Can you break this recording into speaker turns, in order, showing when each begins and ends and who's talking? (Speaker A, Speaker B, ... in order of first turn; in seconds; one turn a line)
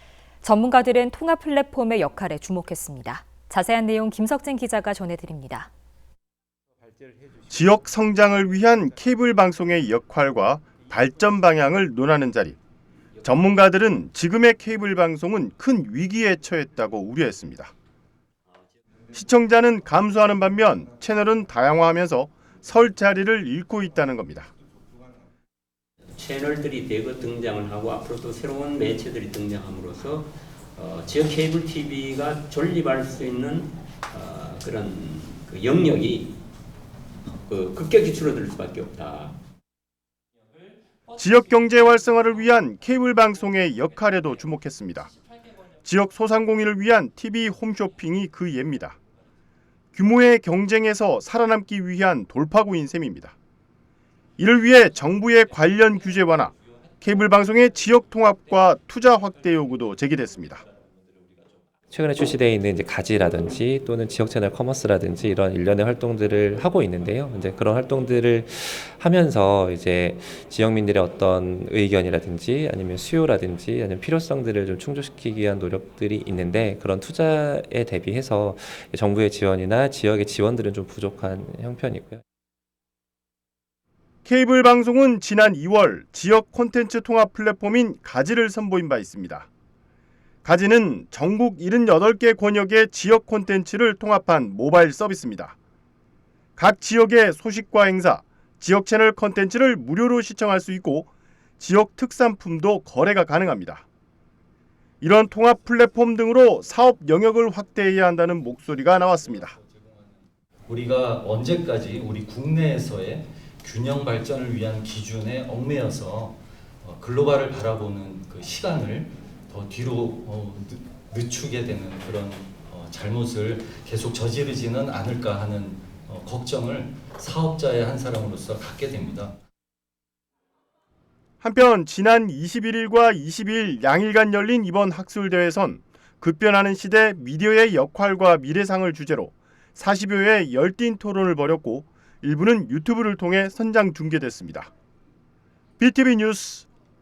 Speaker A: 0.4-5.7
Speaker B: 7.5-12.6
Speaker B: 13.2-17.7
Speaker B: 19.1-24.5
Speaker C: 26.2-36.4
Speaker C: 37.5-39.4
Speaker B: 41.1-45.1
Speaker B: 45.9-49.0
Speaker B: 50.0-53.4
Speaker B: 54.4-60.6
Speaker D: 61.9-82.2
Speaker B: 84.3-89.5
Speaker B: 90.4-95.6
Speaker B: 96.6-101.1
Speaker B: 101.6-103.8
Speaker B: 105.0-109.6
Speaker E: 110.7-129.4
Speaker B: 131.4-144.7
Speaker B: 145.8-146.7